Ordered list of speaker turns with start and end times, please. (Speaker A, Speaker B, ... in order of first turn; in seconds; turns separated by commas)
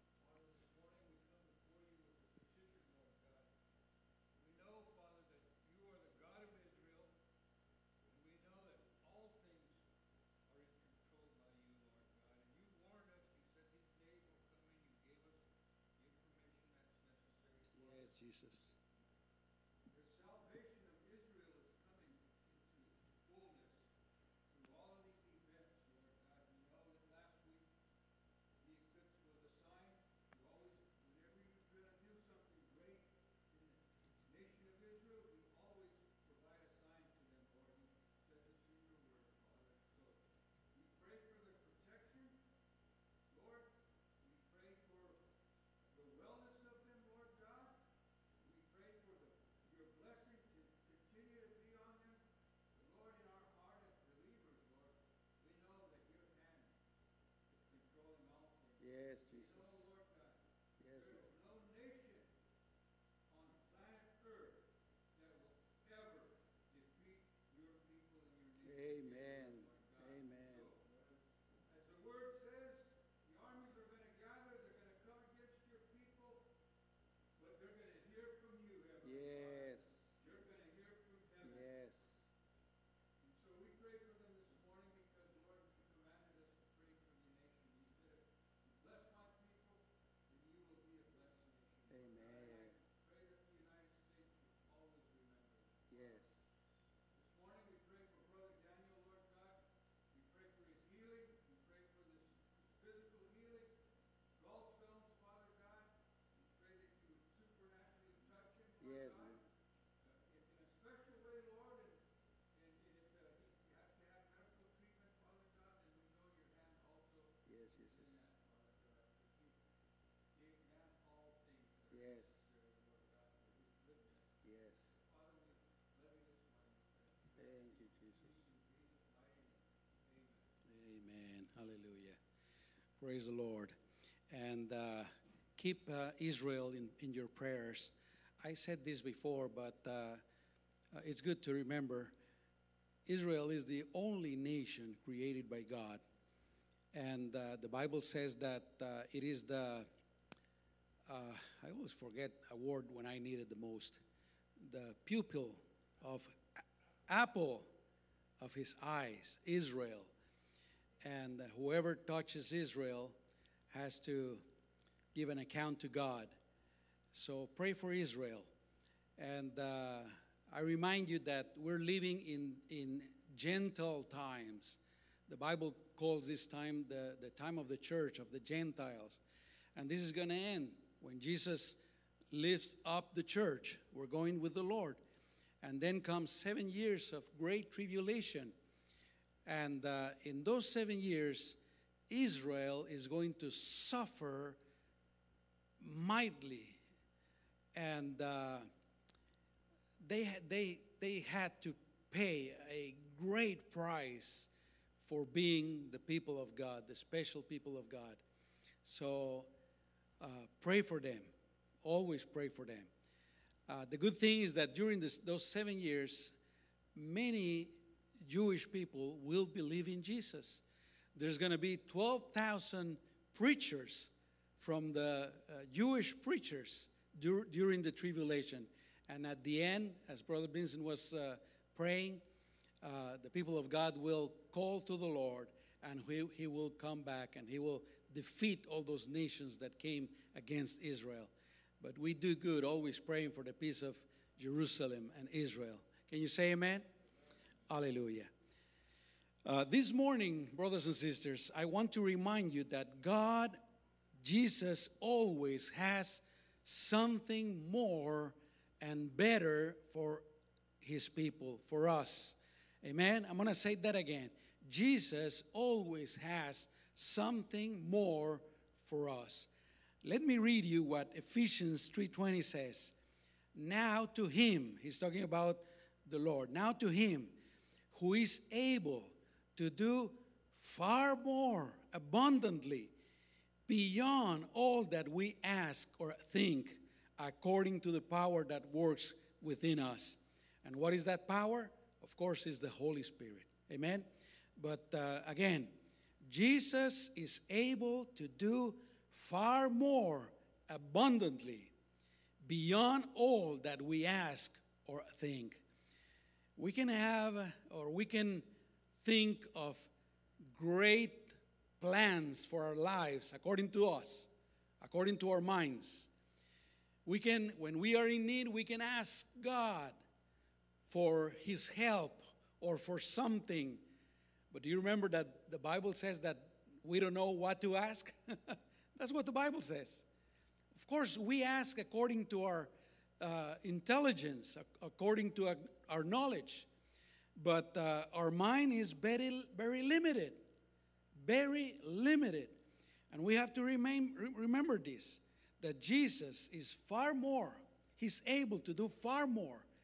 Speaker A: 0.2-3.5, Speaker A: 4.3-7.1, Speaker A: 8.0-9.9, Speaker A: 10.5-18.1, Speaker B: 17.7-18.8, Speaker A: 19.9-23.9, Speaker A: 24.5-27.7, Speaker A: 28.5-42.4, Speaker A: 43.3-45.3, Speaker A: 45.9-56.8, Speaker A: 57.5-62.3, Speaker B: 58.8-59.9, Speaker B: 60.8-61.2, Speaker A: 63.3-76.5, Speaker B: 68.6-70.7, Speaker A: 77.4-81.7, Speaker B: 79.0-80.2, Speaker B: 81.4-82.3, Speaker A: 83.2-96.2, Speaker B: 91.9-92.8, Speaker B: 95.9-96.5, Speaker A: 97.1-103.8, Speaker A: 104.3-109.5, Speaker B: 108.8-109.4, Speaker A: 110.0-119.7, Speaker B: 117.5-118.3, Speaker A: 120.3-124.3, Speaker B: 121.9-122.5, Speaker B: 124.4-125.0, Speaker A: 124.9-130.5, Speaker B: 127.4-128.5, Speaker B: 130.7-132.2, Speaker B: 133.0-133.8, Speaker B: 134.3-140.2, Speaker B: 140.9-142.1, Speaker B: 143.1-146.0, Speaker B: 146.9-149.9, Speaker B: 151.1-154.0, Speaker B: 154.6-157.7, Speaker B: 158.4-160.1, Speaker B: 161.0-163.2, Speaker B: 163.7-164.4, Speaker B: 165.1-166.3, Speaker B: 167.1-168.5, Speaker B: 169.2-179.2, Speaker B: 179.8-181.8, Speaker B: 182.3-185.0, Speaker B: 185.6-188.6, Speaker B: 189.5-194.6, Speaker B: 195.8-196.8, Speaker B: 197.8-198.7, Speaker B: 200.0-208.2, Speaker B: 208.8-209.5, Speaker B: 210.2-211.3, Speaker B: 211.8-212.9, Speaker B: 213.7-216.3, Speaker B: 216.9-220.6, Speaker B: 221.2-232.2, Speaker B: 232.8-246.9, Speaker B: 247.7-248.3, Speaker B: 249.4-253.6, Speaker B: 254.2-260.2, Speaker B: 260.8-269.5, Speaker B: 270.0-273.0, Speaker B: 273.6-277.3, Speaker B: 277.9-282.9, Speaker B: 283.7-295.7, Speaker B: 296.2-301.7, Speaker B: 302.4-305.6, Speaker B: 306.6-308.5, Speaker B: 309.0-309.9, Speaker B: 310.5-314.3, Speaker B: 314.8-316.1, Speaker B: 317.1-320.0, Speaker B: 320.9-323.8, Speaker B: 324.5-330.1, Speaker B: 330.7-336.7, Speaker B: 337.4-340.4, Speaker B: 341.2-342.6, Speaker B: 343.1-349.7